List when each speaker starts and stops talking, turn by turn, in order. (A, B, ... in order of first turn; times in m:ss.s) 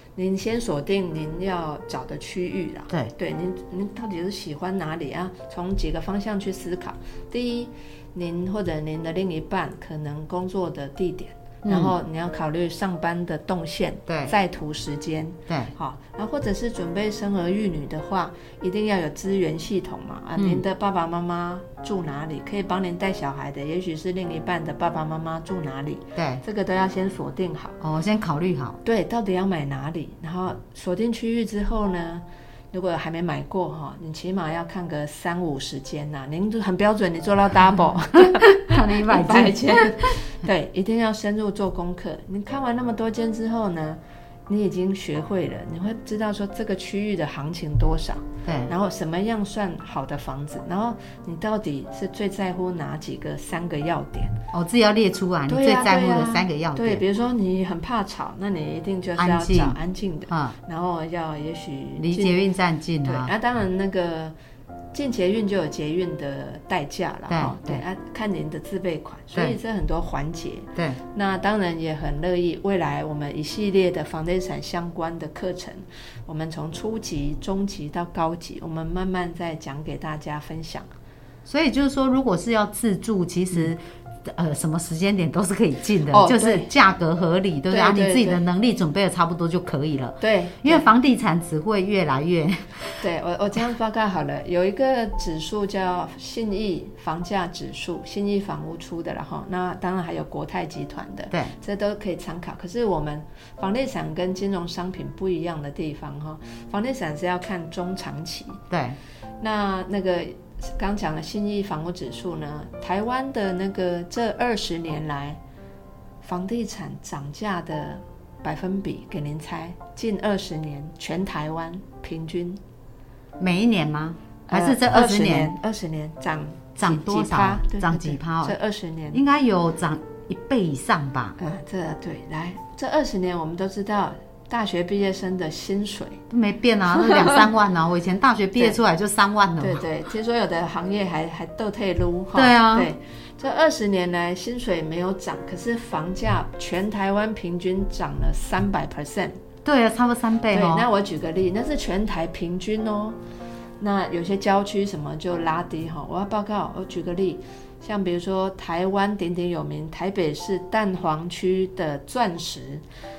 0:00.2-0:27.8 A
0:11.6-0:11.9 B
0:14.1-0:14.3 B
0:20.4-0:20.6 B
0:26.2-0:26.4 B
0:27.8-0:28.8 B
0:28.8-0:54.4 A
0:38.2-0:40.2 B
0:48.4-0:48.7 B
0:54.5-0:57.0 B
0:55.5-1:02.4 A
0:59.2-0:59.8 B
1:00.3-1:00.6 B
1:02.0-1:03.3 B
1:03.0-1:04.3 A
1:04.9-1:20.9 A
1:07.3-1:07.8 B
1:21.4-1:33.0 B
1:26.1-1:26.7 A
1:27.7-1:28.4 A
1:30.2-1:30.9 A
1:33.0-1:48.6 A
1:48.7-1:49.0 B
1:49.4-1:55.4 A
1:56.2-2:02.6 A
2:03.4-2:05.5 B
2:04.5-2:09.2 A
2:06.8-2:08.6 B
2:09.1-2:11.4 B
2:11.4-2:16.2 A
2:16.3-2:19.8 B
2:17.0-2:17.4 A
2:19.6-2:29.3 A
2:22.3-2:22.9 B
2:29.6-2:30.9 B
2:30.5-2:33.2 A
2:33.8-2:42.8 A